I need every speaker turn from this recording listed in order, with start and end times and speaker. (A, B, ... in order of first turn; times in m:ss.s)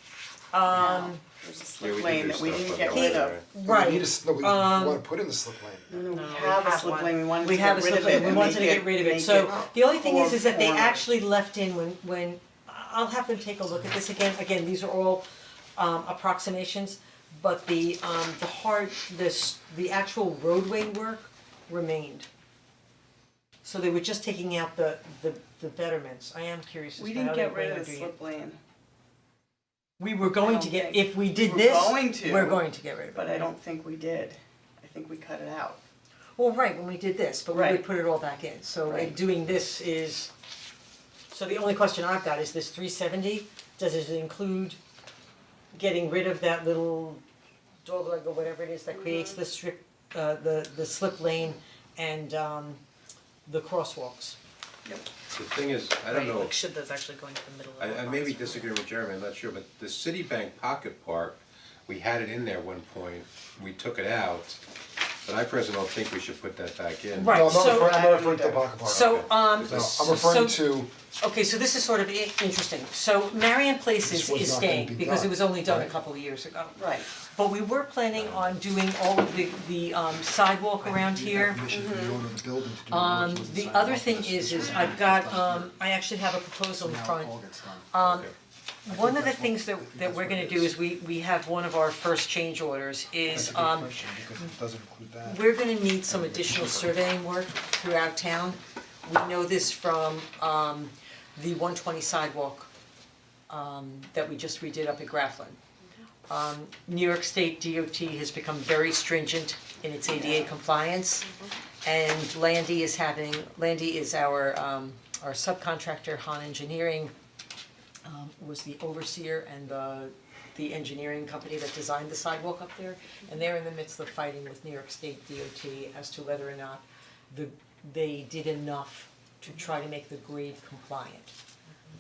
0:00.5-0:01.2 A
0:00.7-0:03.4 B
0:01.8-0:03.4 C
0:02.9-0:05.0 A
0:03.6-0:05.9 D
0:05.9-0:11.1 B
0:06.1-0:07.1 E
0:07.3-0:15.2 A
0:15.8-0:22.3 A
0:23.6-0:28.1 A
0:27.0-0:28.6 B
0:30.0-0:33.5 A
0:30.4-0:32.6 B
0:33.1-0:35.8 B
0:36.4-0:40.3 A
0:37.5-0:37.8 B
0:38.9-0:39.1 B
0:41.3-0:44.8 A
0:45.7-0:47.2 A
0:47.8-0:52.8 A
0:48.9-0:49.4 B
0:53.4-0:54.4 A
0:55.3-0:56.5 C
0:56.1-0:58.7 E
0:57.8-1:04.6 C
1:05.2-1:07.7 C
1:07.1-1:08.0 A
1:07.3-1:10.9 D
1:07.4-1:08.6 B
1:08.8-1:21.6 A
1:08.9-1:09.3 C
1:14.0-1:15.9 D
1:16.8-1:17.1 B
1:20.8-1:25.7 D
1:21.7-1:22.2 B
1:22.9-1:27.3 A
1:26.8-1:28.3 D
1:27.9-1:28.3 A
1:28.8-1:33.9 A
1:28.9-1:30.7 D
1:33.3-1:35.4 D
1:35.2-1:42.7 A
1:43.5-1:45.6 A
1:46.3-1:51.3 A
1:51.8-1:57.1 A
1:58.0-2:11.3 A